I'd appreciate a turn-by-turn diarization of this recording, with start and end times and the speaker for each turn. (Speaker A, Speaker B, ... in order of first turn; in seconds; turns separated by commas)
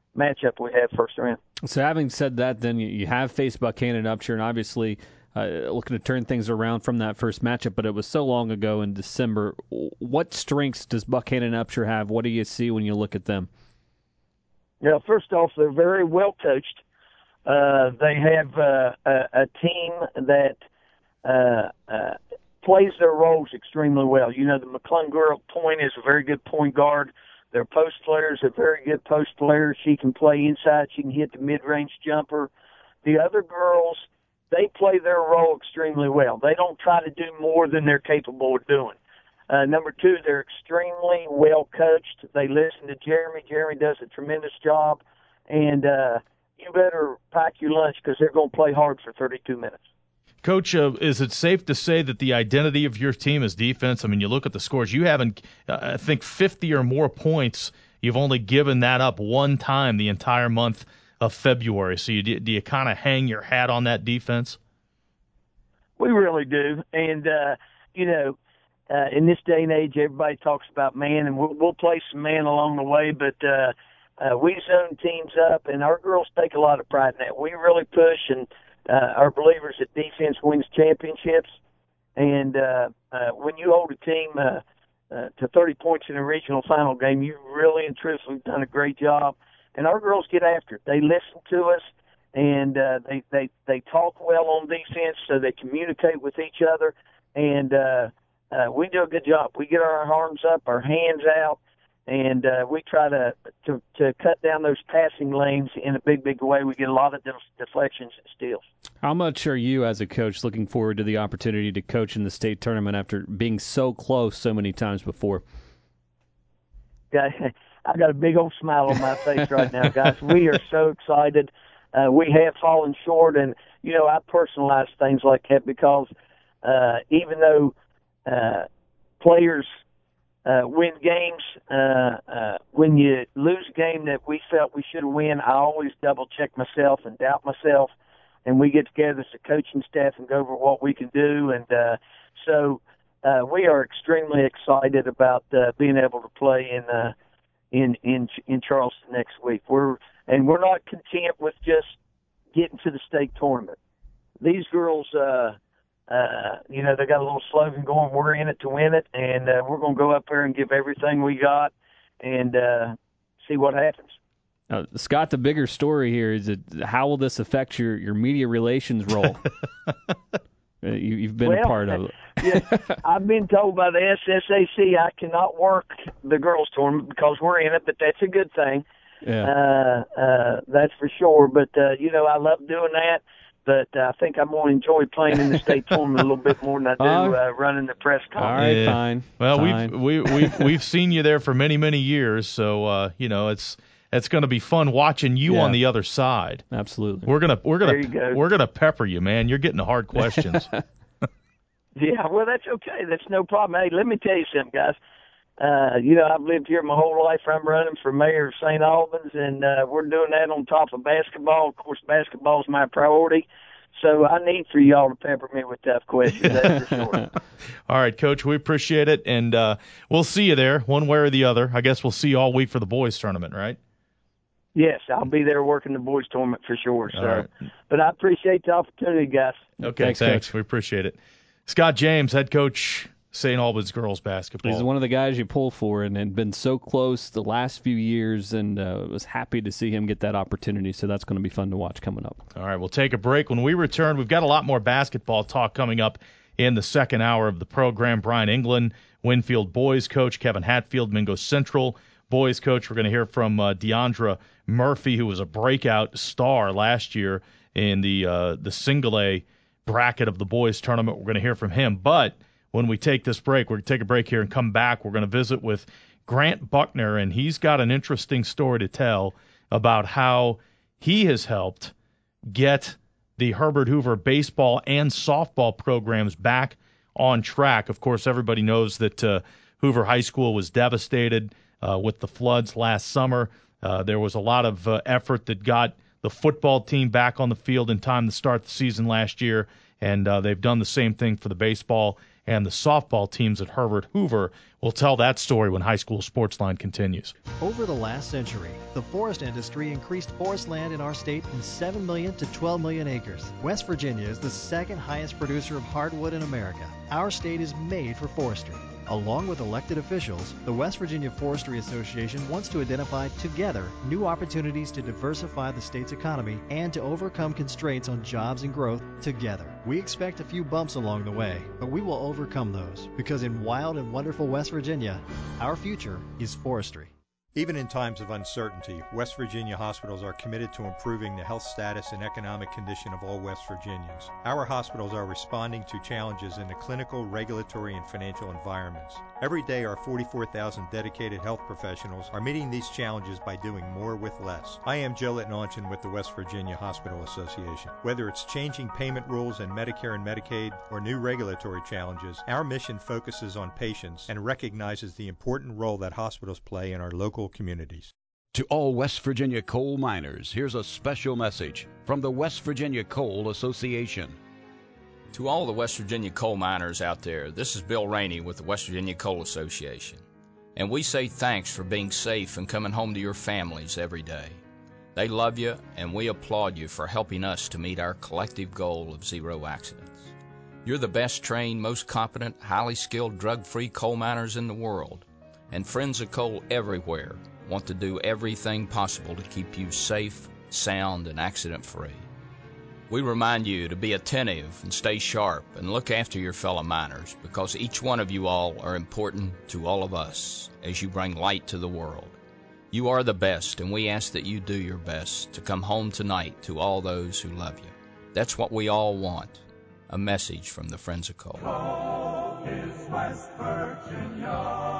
Speaker A: 0.1-1.4, Speaker B: 1.6-13.5, Speaker A: 14.8-16.8, Speaker A: 17.4-20.6, Speaker A: 21.2-32.5, Speaker A: 33.0-39.0, Speaker A: 39.5-49.8, Speaker C: 50.4-64.6, Speaker A: 66.0-68.3, Speaker A: 68.9-81.5, Speaker A: 82.2-108.6, Speaker B: 109.0-115.4, Speaker A: 117.1-126.1, Speaker A: 126.6-127.7, Speaker A: 128.2-128.7, Speaker A: 129.2-129.7, Speaker A: 130.4-137.9, Speaker A: 138.4-147.1, Speaker A: 147.7-152.0, Speaker A: 152.5-153.8, Speaker A: 154.4-155.6, Speaker A: 156.1-164.2, Speaker B: 164.7-169.4, Speaker B: 170.8-172.8, Speaker A: 171.4-178.8, Speaker B: 179.2-179.5, Speaker A: 179.4-188.6, Speaker B: 187.0-187.4, Speaker B: 188.3-190.1, Speaker C: 188.5-196.6, Speaker B: 195.5-195.8, Speaker B: 196.7-197.3, Speaker C: 197.2-200.7, Speaker A: 197.8-198.4, Speaker A: 201.9-205.0, Speaker A: 205.6-217.2, Speaker B: 216.5-217.2, Speaker C: 217.9-223.8, Speaker A: 224.7-229.7, Speaker C: 227.1-227.5, Speaker B: 229.8-230.4, Speaker C: 229.8-234.9, Speaker B: 234.6-242.4, Speaker C: 242.5-271.9, Speaker C: 272.5-297.3, Speaker D: 297.6-327.1, Speaker E: 327.6-358.1, Speaker F: 358.5-364.4, Speaker G: 365.3-370.2, Speaker G: 370.7-374.6, Speaker G: 375.1-380.3, Speaker G: 380.8-392.3, Speaker G: 393.1-402.4, Speaker G: 402.9-411.7